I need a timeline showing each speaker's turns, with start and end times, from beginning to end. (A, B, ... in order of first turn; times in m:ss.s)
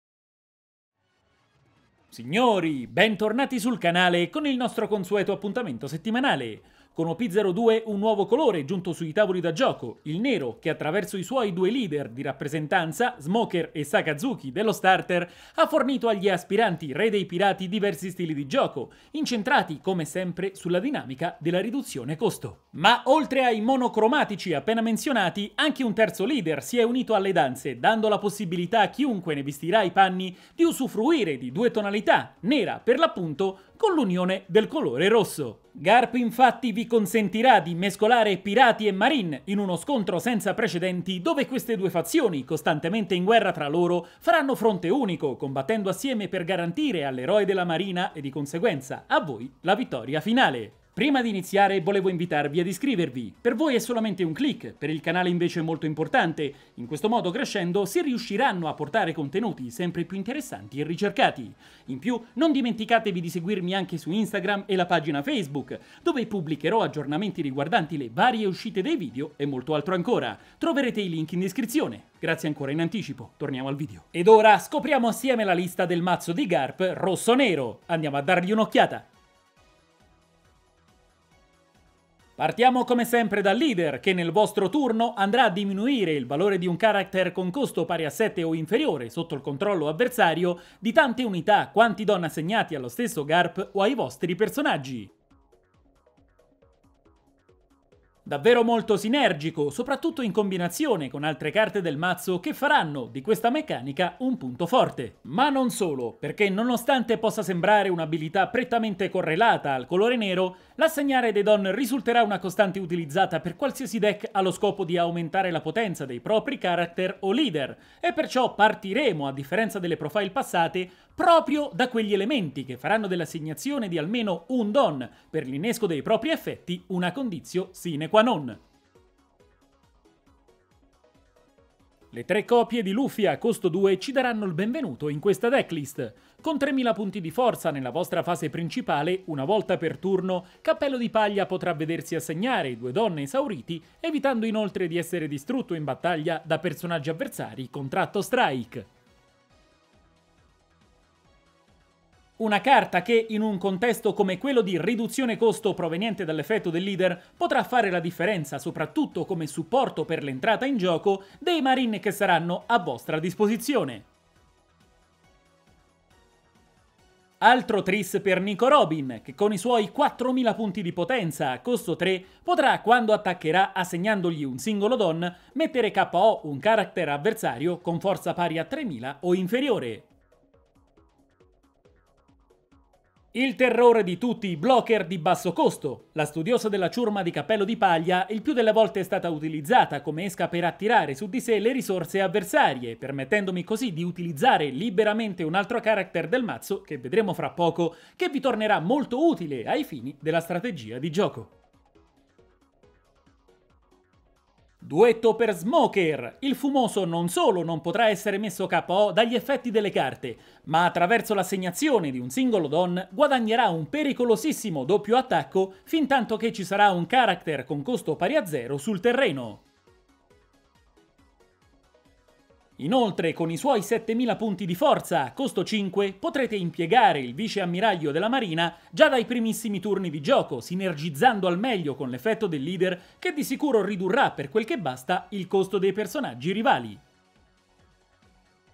0:02.1-1:19.1 A
1:22.4-1:35.1 A
1:38.2-2:08.6 A
2:12.1-2:28.9 A
2:32.4-2:44.1 A
2:47.4-3:00.1 A
3:03.3-3:21.5 A
3:24.8-3:39.6 A
3:42.8-3:57.0 A